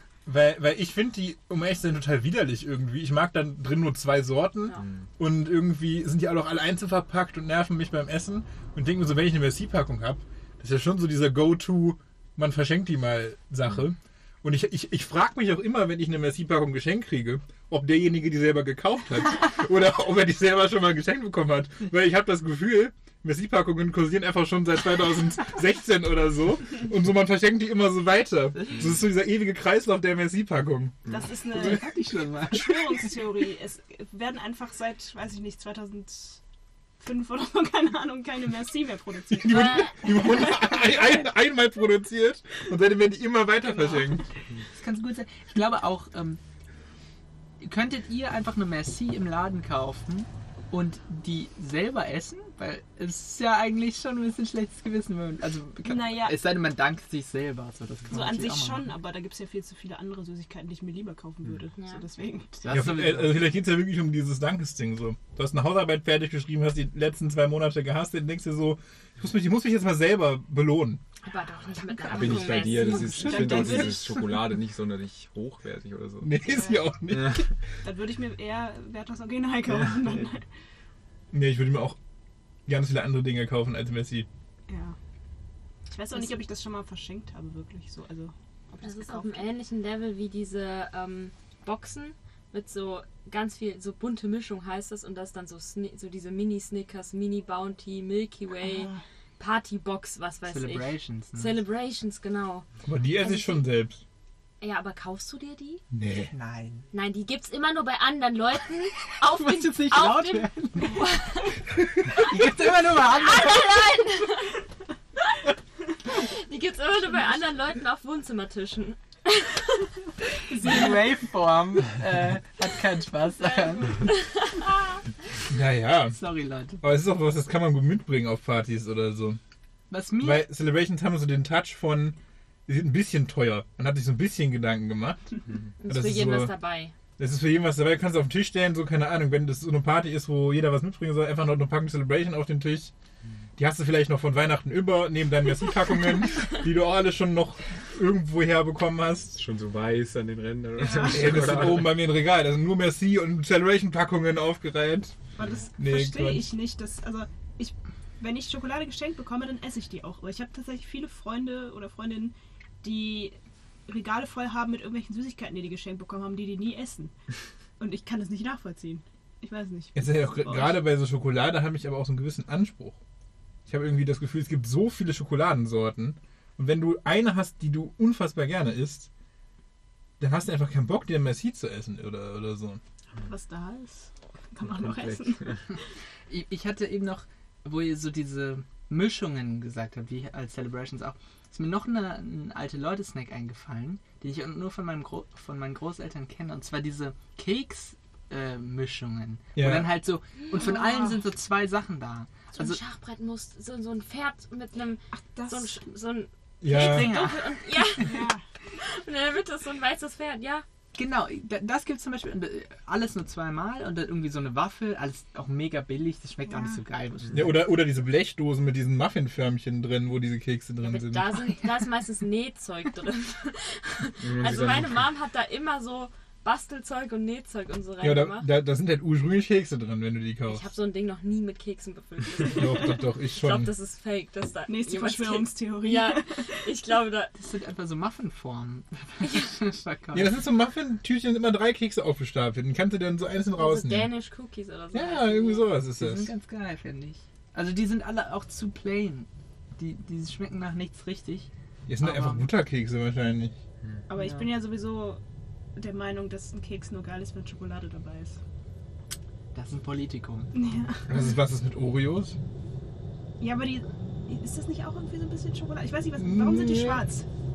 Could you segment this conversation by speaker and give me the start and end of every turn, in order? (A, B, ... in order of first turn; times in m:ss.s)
0:00.2-0:31.1 A
0:31.1-0:31.9 B
0:31.5-0:33.2 C
0:32.4-0:36.4 B
0:37.0-0:40.0 B
0:39.3-0:44.2 A
0:39.5-0:39.9 D
0:44.7-0:46.4 C
0:47.6-0:58.9 C
0:55.8-0:56.4 B
0:58.1-1:02.8 B
1:01.8-1:02.0 D
1:02.6-1:03.5 C
1:02.7-1:11.0 A
1:11.2-1:14.0 D
1:12.0-1:16.4 E
1:12.8-1:14.3 B
1:16.2-1:17.5 A
1:16.5-1:16.8 B
1:17.1-1:17.4 E
1:17.8-1:20.4 B
1:21.3-1:22.0 A
1:22.7-1:24.3 A
1:24.7-1:25.0 B
1:25.9-1:29.5 B
1:28.8-1:43.6 D
1:38.6-1:39.0 B
1:40.4-1:41.5 C
1:42.8-1:44.0 A
1:44.6-1:45.8 D
1:45.9-1:46.3 A
1:46.3-1:46.8 C
1:46.9-1:52.4 D
1:49.2-1:51.0 C
1:52.1-1:53.6 C
1:53.0-1:54.5 D
1:56.0-1:59.9 D
2:00.5-2:04.0 C
2:03.9-2:05.0 D
2:05.5-2:06.2 A
2:06.1-2:06.8 C
2:06.8-2:09.4 A
2:09.9-2:10.5 C
2:10.2-2:12.2 A
2:12.7-2:15.2 A
2:15.8-2:16.9 D
2:15.8-2:16.5 A
2:17.2-2:22.9 A
2:23.6-2:29.4 A
2:29.3-2:32.0 E
2:30.8-2:31.7 B
2:30.9-2:35.2 A
2:35.4-2:43.4 B
2:35.8-2:36.5 A
2:43.9-2:47.1 B
2:47.8-2:50.8 B
2:50.0-2:53.0 A
2:53.7-2:59.1 A
3:00.2-3:02.8 A
3:03.2-3:05.6 B
3:04.6-3:05.6 E
3:06.3-3:22.8 C
3:19.5-3:20.0 A
3:20.6-3:20.8 B
3:22.5-3:30.6 D
3:25.3-3:25.8 B
3:26.6-3:27.2 A
3:26.7-3:27.6 C
3:28.0-3:28.4 B
3:30.9-3:37.5 C
3:36.5-3:36.8 B
3:37.3-3:41.4 A
3:40.8-3:48.5 D
3:44.2-3:45.1 E
3:48.0-3:50.6 A
3:50.5-3:57.3 D
3:52.5-3:53.7 A
3:54.7-3:56.5 B
3:57.3-4:00.3 C
4:00.1-4:04.1 A
4:03.5-4:05.7 D
4:04.9-4:06.3 A
4:06.0-4:12.5 C
4:11.9-4:13.6 A
4:14.1-4:15.2 B
4:14.1-4:14.5 C
4:15.8-4:18.4 B
4:19.5-4:20.5 C
4:20.5-4:21.2 B
4:21.1-4:22.4 A
4:23.4-4:27.2 B
4:26.2-4:27.0 A